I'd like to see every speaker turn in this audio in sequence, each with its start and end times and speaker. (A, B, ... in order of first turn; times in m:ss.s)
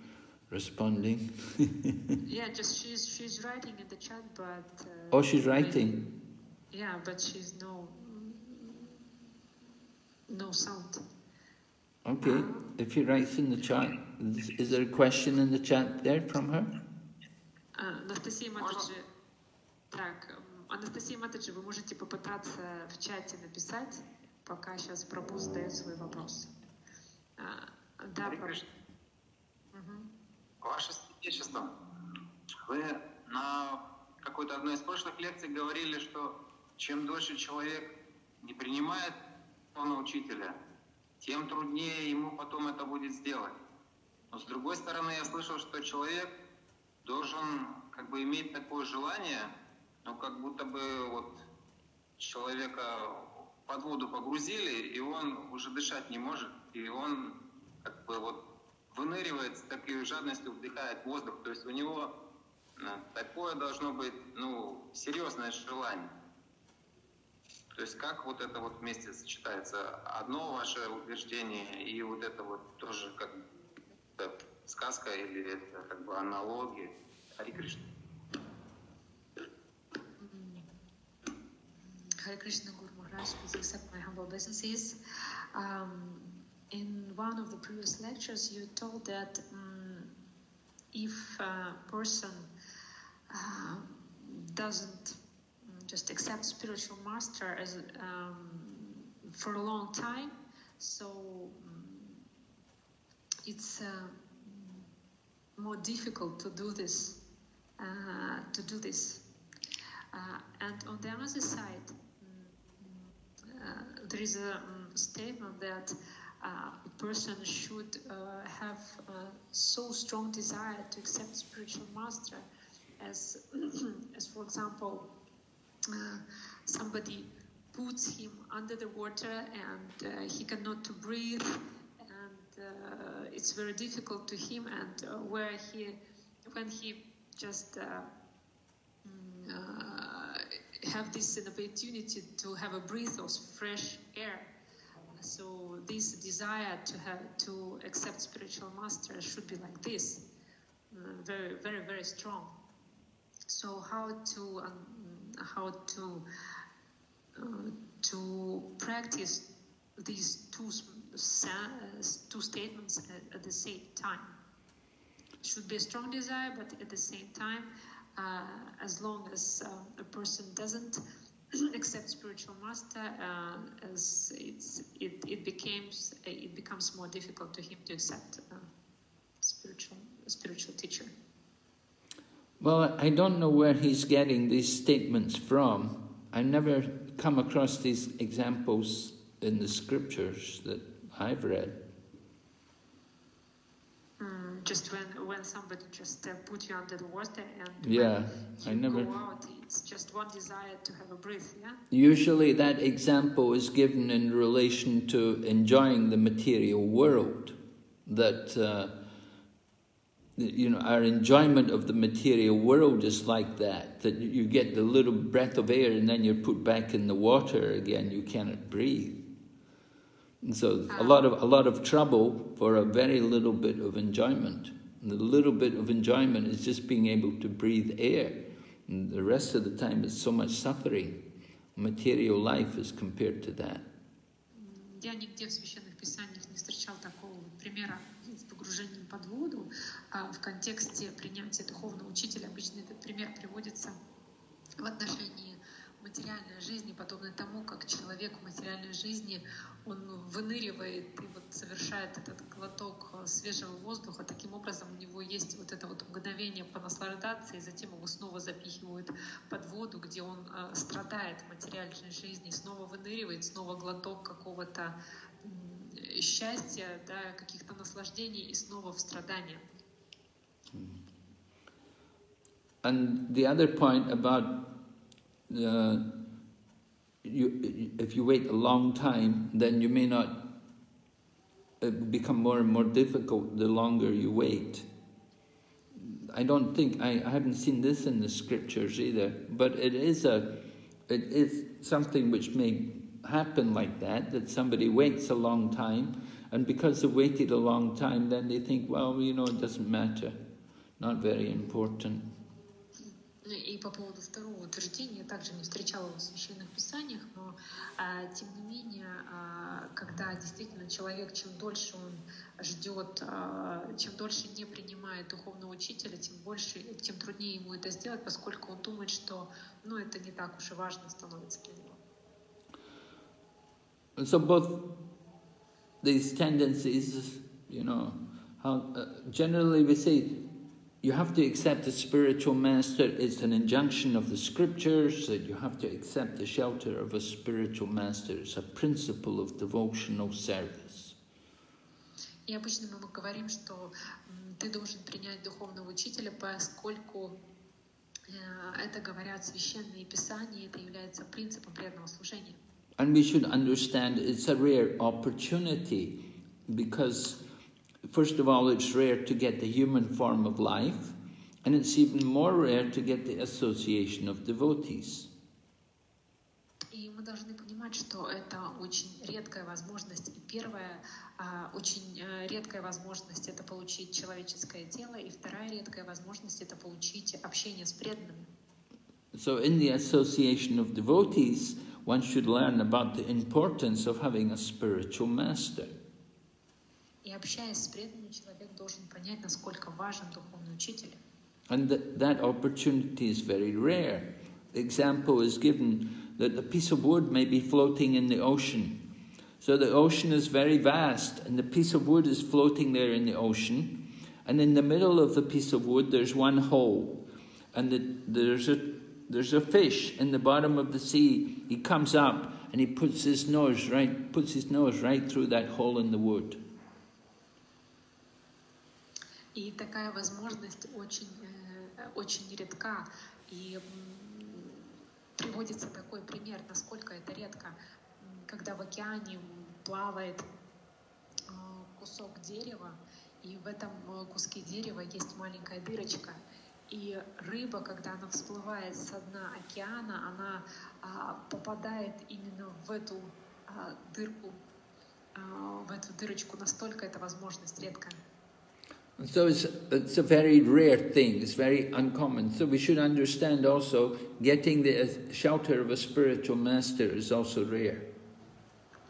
0:00.5-0:02.1 A
0:02.2-0:05.9 B
0:05.1-0:06.0 A
0:06.7-0:09.1 B
0:10.3-0:11.0 B
0:12.0-0:16.7 A
0:12.2-0:12.7 B
0:17.8-0:19.1 B
0:18.6-0:18.9 C
0:19.9-0:26.5 B
0:27.4-0:28.6 B
0:28.2-0:28.6 C
0:29.7-0:30.1 B
0:30.6-0:31.7 C
0:32.5-0:37.9 C
0:38.4-0:39.2 C
0:39.7-0:40.5 C
0:41.2-0:43.5 C
0:44.3-0:46.3 C
0:47.0-0:49.5 C
0:50.0-0:51.4 C
0:52.2-0:57.3 C
0:57.8-1:02.1 C
1:02.8-1:06.1 C
1:07.7-1:13.4 C
1:14.2-1:17.8 C
1:20.2-1:20.7 B
1:21.8-1:25.0 B
1:25.5-1:30.1 B
1:30.9-1:32.5 B
1:33.3-1:42.3 B
1:43.4-1:44.9 B
1:45.6-1:47.2 B
1:47.8-1:49.2 B
1:50.1-2:02.5 B
2:03.0-2:05.1 B
2:05.9-2:18.1 B
2:19.0-2:24.5 B
2:25.2-2:30.2 B
2:30.9-2:32.6 B
2:33.5-2:36.3 B
2:37.4-2:39.4 B
2:40.0-2:44.4 B
2:45.4-2:51.0 B
2:51.5-2:58.7 B
2:59.4-3:01.1 B
3:02.6-3:11.8 A
3:14.2-3:21.8 B
3:17.8-3:19.1 A
3:21.9-3:29.0 A
3:30.4-3:39.2 A
3:40.4-3:51.2 A
3:40.9-3:41.2 B
3:51.8-3:53.9 A
3:54.5-4:04.0 B
4:04.8-4:29.6 B
4:30.7-4:31.0 A
4:32.8-4:34.8 A
4:35.5-4:36.1 A
4:37.2-4:40.5 A
4:41.8-4:44.9 A
4:46.0-5:00.4 A
5:01.0-5:02.3 A
5:03.4-5:22.0 B
5:24.2-5:24.9 A
5:26.0-5:30.4 A
5:31.0-5:41.2 A
5:42.5-5:47.4 B
5:48.3-5:52.6 B
5:53.0-5:57.4 A
5:58.1-6:05.3 A
6:06.9-6:18.5 B
6:19.3-6:25.9 A
6:27.2-6:31.2 B
6:31.7-6:39.0 A
6:39.6-6:47.2 A
6:47.7-6:56.6 A
6:59.5-7:10.4 B
7:11.5-7:24.6 B
7:25.4-7:28.2 B
7:29.2-7:38.1 A